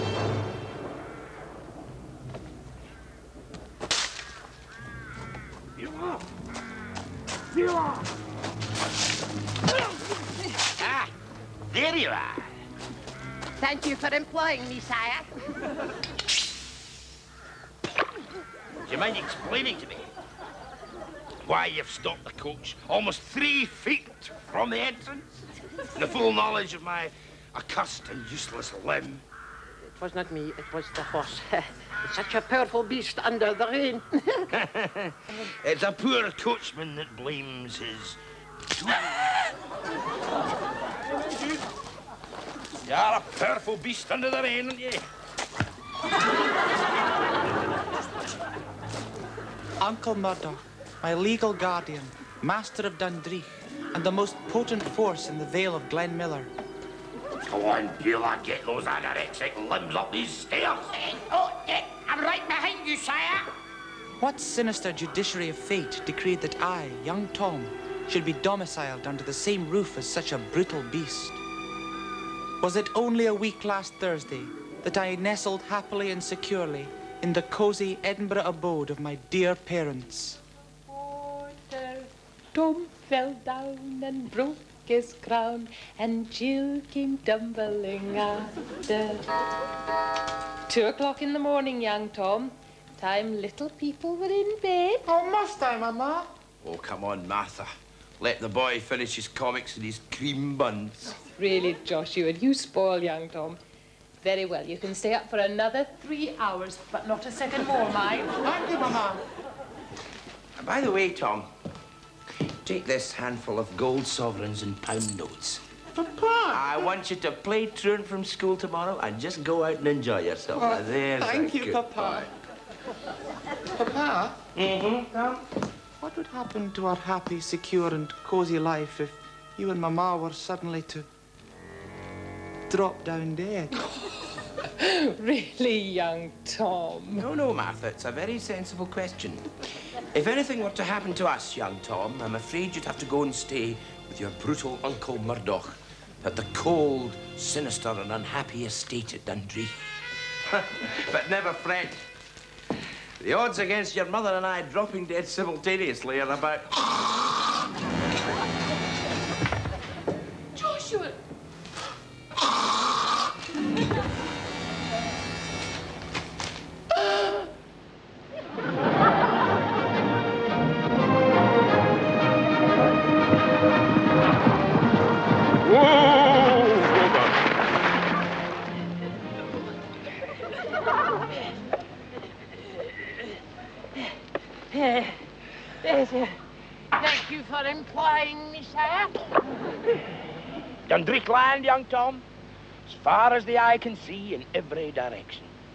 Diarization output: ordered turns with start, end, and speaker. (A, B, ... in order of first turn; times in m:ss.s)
0:05.8-0:06.2 A
0:07.5-0:08.0 A
0:10.7-0:11.1 A
0:11.7-0:12.5 A
0:13.6-0:15.3 B
0:18.8-0:20.1 A
0:21.4-0:25.3 A
0:25.9-0:29.2 A
0:30.0-0:34.4 B
0:34.5-0:38.2 A
0:38.7-0:39.5 A
0:42.8-0:45.0 A
0:49.8-0:56.5 C
0:57.5-1:03.5 A
1:04.2-1:11.4 C
1:12.6-1:20.4 C
1:20.9-1:29.3 D
1:30.7-1:35.0 D
1:35.0-1:36.3 C
1:36.6-1:41.2 A
1:41.3-1:43.6 D
1:44.2-1:48.4 D
1:48.4-1:49.2 C
1:50.6-1:51.5 A
1:52.6-1:55.6 A
1:55.9-1:56.6 C
1:56.5-2:02.3 A
2:00.6-2:02.3 C
2:03.7-2:04.4 C
2:04.6-2:05.4 A
2:06.0-2:11.1 C
2:12.7-2:13.9 C
2:14.8-2:17.3 D
2:17.1-2:19.5 A
2:20.1-2:29.9 A
2:30.4-2:32.0 A
2:33.2-2:36.8 A
2:40.6-2:41.2 D
2:55.7-2:57.3 A
3:04.7-3:05.1 B
3:05.8-3:06.4 B
3:06.9-3:09.3 B
3:10.9-3:12.2 A
3:12.9-3:15.5 A